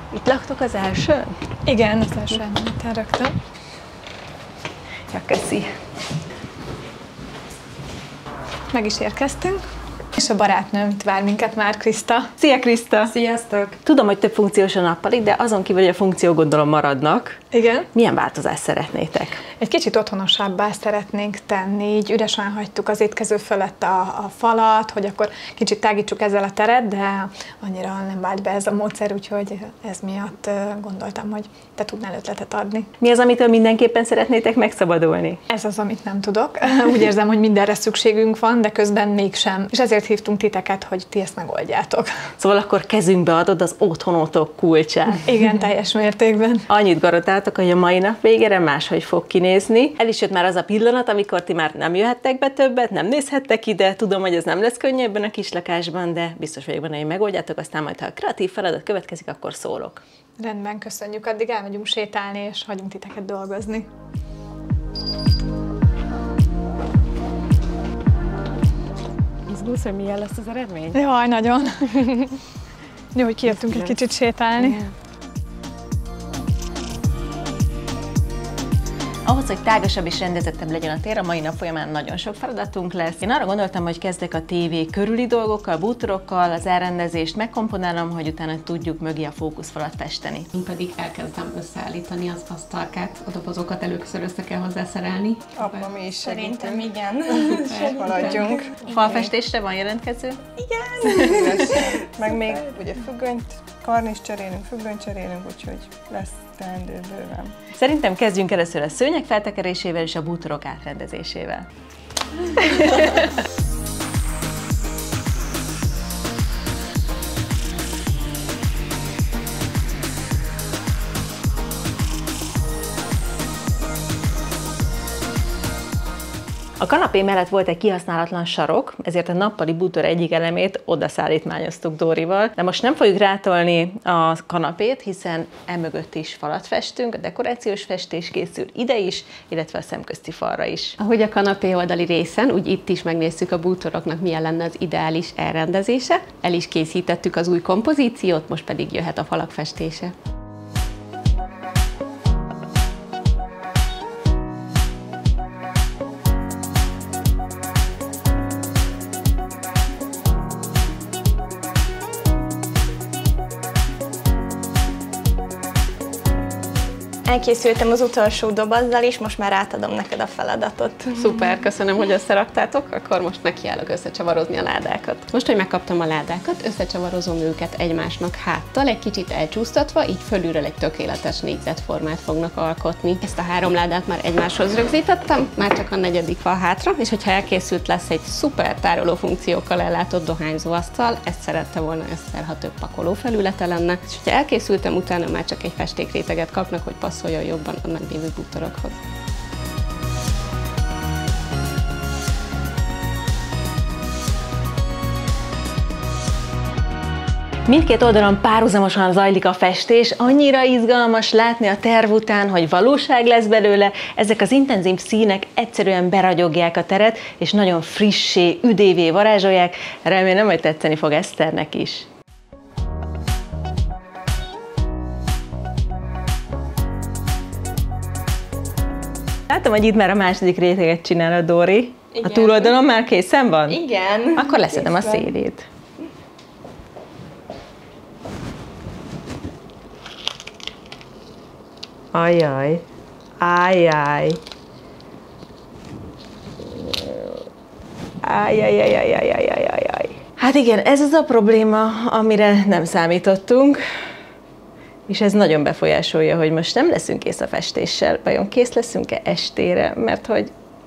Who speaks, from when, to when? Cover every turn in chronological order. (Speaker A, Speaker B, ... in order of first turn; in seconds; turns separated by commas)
Speaker A: 0.1-1.4, Speaker B: 1.6-3.3, Speaker A: 5.1-5.7, Speaker B: 8.7-9.6, Speaker B: 10.1-12.3, Speaker A: 12.4-13.1, Speaker C: 13.0-13.8, Speaker A: 13.8-17.4, Speaker B: 17.5-17.9, Speaker A: 17.9-19.4, Speaker B: 19.6-32.9, Speaker A: 33.0-35.4, Speaker B: 35.5-42.1, Speaker A: 42.4-45.2, Speaker B: 45.2-46.7, Speaker A: 46.7-60.0, Speaker B: 60.4-63.9, Speaker C: 69.5-71.0, Speaker B: 70.9-72.4, Speaker B: 73.1-74.8, Speaker C: 73.5-74.0, Speaker C: 74.6-74.9, Speaker A: 79.2-90.5, Speaker D: 90.5-95.9, Speaker E: 95.5-98.9, Speaker F: 96.2-98.1, Speaker D: 97.9-98.5, Speaker A: 98.9-100.4, Speaker F: 100.6-101.2, Speaker A: 101.0-102.2, Speaker E: 101.2-107.5, Speaker A: 107.7-111.7, Speaker A: 112.5-113.3, Speaker A: 126.8-140.9, Speaker D: 141.0-150.1, Speaker F: 167.2-171.2, Speaker D: 171.1-199.0, Speaker A: 207.7-222.1, Speaker A: 229.5-233.8, Speaker F: 232.1-232.7, Speaker F: 233.7-235.3, Speaker A: 234.3-235.7, Speaker A: 242.1-242.8, Speaker A: 243.4-244.4, Speaker A: 246.7-247.4, Speaker A: 248.2-253.8, Speaker A: 255.1-260.5